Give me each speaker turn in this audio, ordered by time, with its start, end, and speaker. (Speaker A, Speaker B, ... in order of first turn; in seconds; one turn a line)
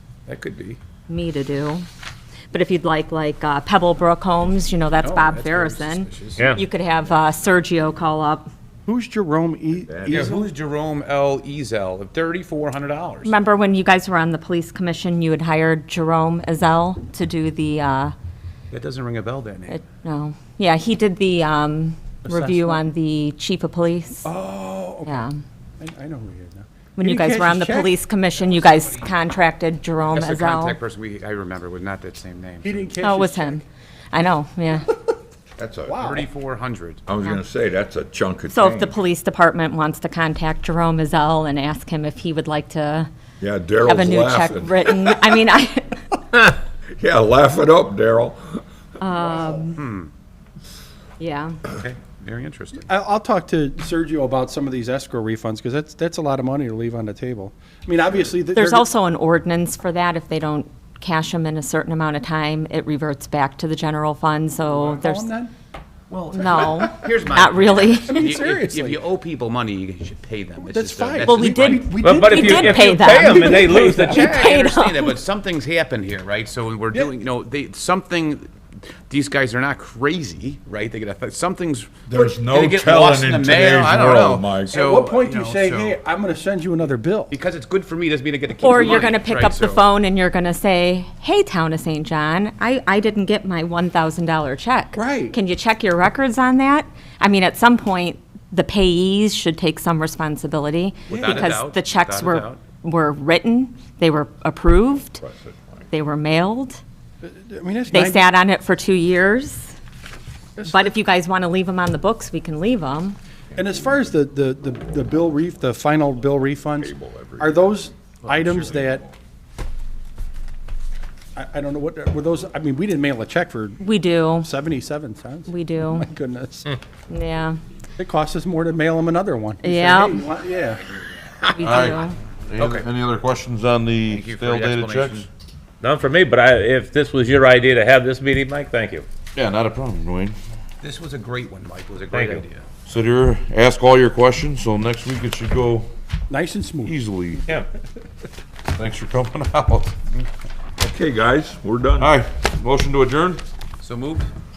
Speaker A: 0.3-0.8
Speaker B: 1.1-1.9
Speaker B: 2.5-8.5
Speaker A: 5.0-6.5
Speaker C: 6.4-6.6
Speaker D: 8.9-10.3
Speaker E: 9.8-10.5
Speaker A: 10.1-13.3
Speaker B: 13.2-18.1
Speaker A: 18.7-19.8
Speaker B: 19.7-24.3
Speaker D: 22.2-22.8
Speaker D: 24.2-25.2
Speaker B: 25.1-25.4
Speaker D: 25.8-27.9
Speaker B: 27.0-30.8
Speaker A: 30.1-33.0
Speaker D: 32.6-33.6
Speaker B: 33.0-34.9
Speaker E: 35.6-36.0
Speaker D: 35.9-36.2
Speaker A: 36.0-37.0
Speaker E: 37.1-39.0
Speaker B: 38.5-43.1
Speaker E: 43.4-45.2
Speaker B: 43.8-46.0
Speaker E: 47.0-48.6
Speaker B: 49.0-49.8
Speaker A: 49.8-50.1
Speaker B: 51.2-51.6
Speaker A: 51.7-52.9
Speaker D: 52.8-58.9
Speaker B: 58.5-65.3
Speaker D: 64.7-65.5
Speaker A: 66.1-72.0
Speaker B: 66.3-68.3
Speaker D: 68.0-69.0
Speaker D: 70.6-73.9
Speaker B: 71.2-75.2
Speaker C: 72.0-74.3
Speaker A: 73.5-78.5
Speaker A: 79.1-86.0
Speaker E: 82.1-85.0
Speaker D: 84.6-87.3
Speaker A: 87.3-89.8
Speaker B: 88.6-105.2
Speaker D: 94.9-95.3
Speaker A: 101.1-102.6
Speaker D: 101.1-101.5
Speaker E: 105.2-105.5
Speaker B: 105.9-106.8
Speaker D: 107.2-108.3
Speaker B: 107.9-109.7
Speaker D: 110.6-110.9
Speaker B: 110.6-113.2
Speaker D: 113.5-119.1
Speaker E: 116.8-119.1
Speaker D: 121.3-123.8
Speaker B: 123.8-124.5
Speaker D: 124.4-126.7
Speaker B: 125.5-126.1
Speaker B: 127.1-127.6
Speaker D: 128.0-130.9
Speaker B: 129.6-130.3
Speaker B: 131.5-132.2
Speaker F: 131.6-135.3
Speaker A: 132.6-132.9
Speaker A: 134.1-135.3
Speaker C: 135.8-139.1
Speaker F: 139.3-140.4
Speaker A: 140.8-142.6
Speaker C: 142.1-142.4
Speaker F: 142.9-145.9
Speaker D: 146.3-146.9
Speaker F: 146.8-147.5
Speaker F: 148.8-149.9
Speaker E: 150.8-152.1
Speaker F: 152.0-153.4
Speaker A: 153.8-154.3